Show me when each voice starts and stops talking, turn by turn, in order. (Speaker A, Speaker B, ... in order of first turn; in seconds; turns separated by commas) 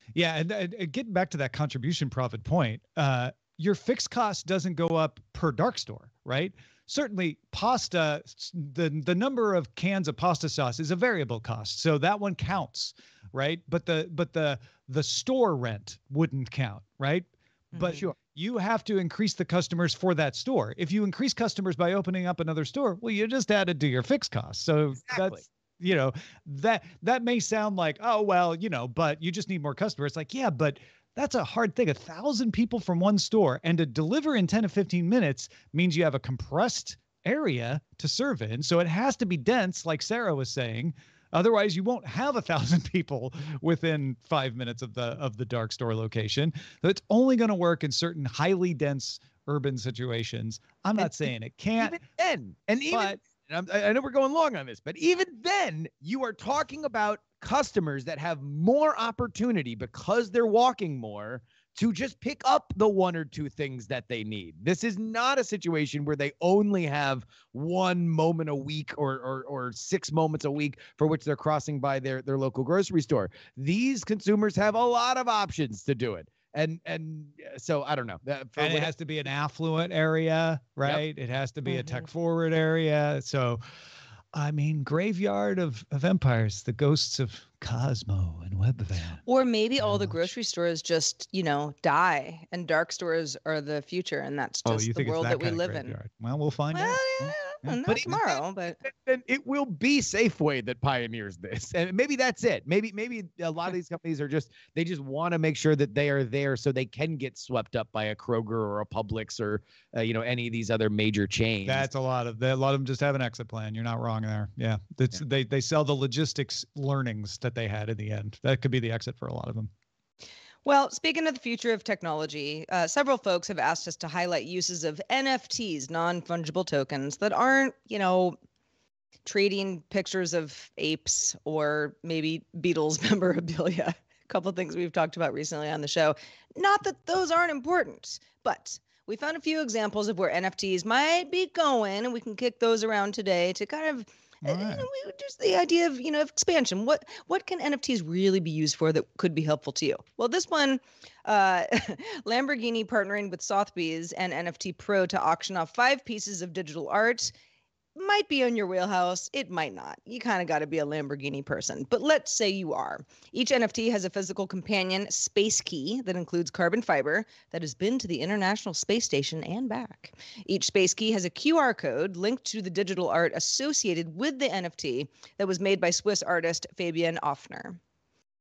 Speaker A: 0.2-52.0, Speaker B: 17.7-18.1, Speaker B: 25.1-25.4, Speaker B: 51.8-78.9, Speaker A: 52.9-53.2, Speaker A: 78.6-83.6, Speaker C: 81.7-82.0, Speaker A: 84.3-89.2, Speaker C: 89.3-96.0, Speaker A: 89.8-90.3, Speaker A: 94.7-98.2, Speaker C: 96.7-98.8, Speaker B: 97.9-111.9, Speaker A: 111.7-119.7, Speaker C: 120.7-128.4, Speaker C: 129.2-157.3, Speaker A: 144.4-144.9, Speaker C: 158.0-177.8